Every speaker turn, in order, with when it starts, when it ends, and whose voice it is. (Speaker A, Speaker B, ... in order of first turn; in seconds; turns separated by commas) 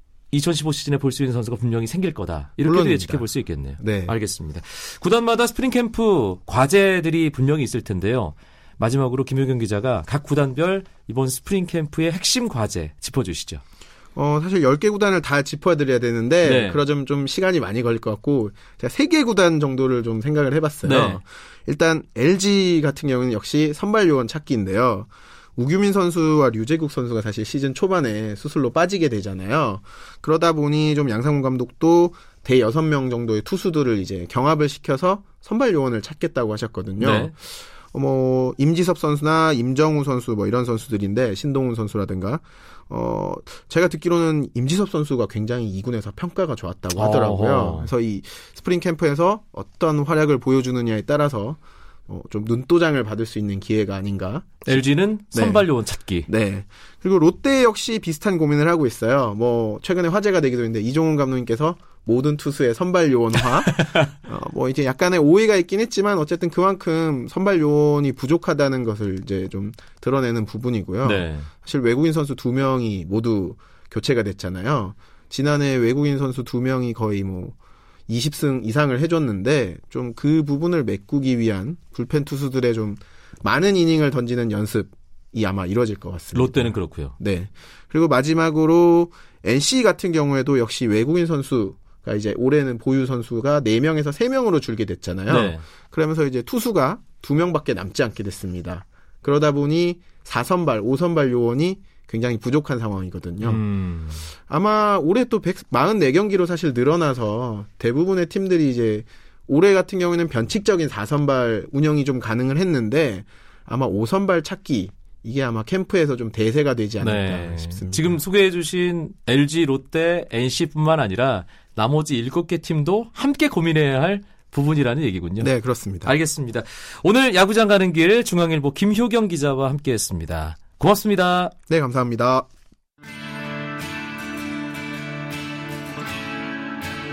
Speaker A: 0.3-13.6, Speaker B: 2.6-4.2, Speaker B: 14.2-55.7, Speaker A: 16.4-16.8, Speaker A: 20.8-21.2, Speaker A: 37.0-37.3, Speaker A: 47.0-47.9, Speaker A: 54.6-56.3, Speaker B: 56.3-77.5, Speaker A: 63.7-64.1, Speaker A: 71.0-71.5, Speaker B: 78.1-103.6, Speaker A: 86.3-87.2, Speaker A: 95.3-95.6, Speaker A: 103.4-104.3, Speaker B: 104.5-118.2, Speaker A: 117.0-125.5, Speaker B: 125.4-126.1, Speaker A: 126.0-131.5, Speaker B: 131.7-132.5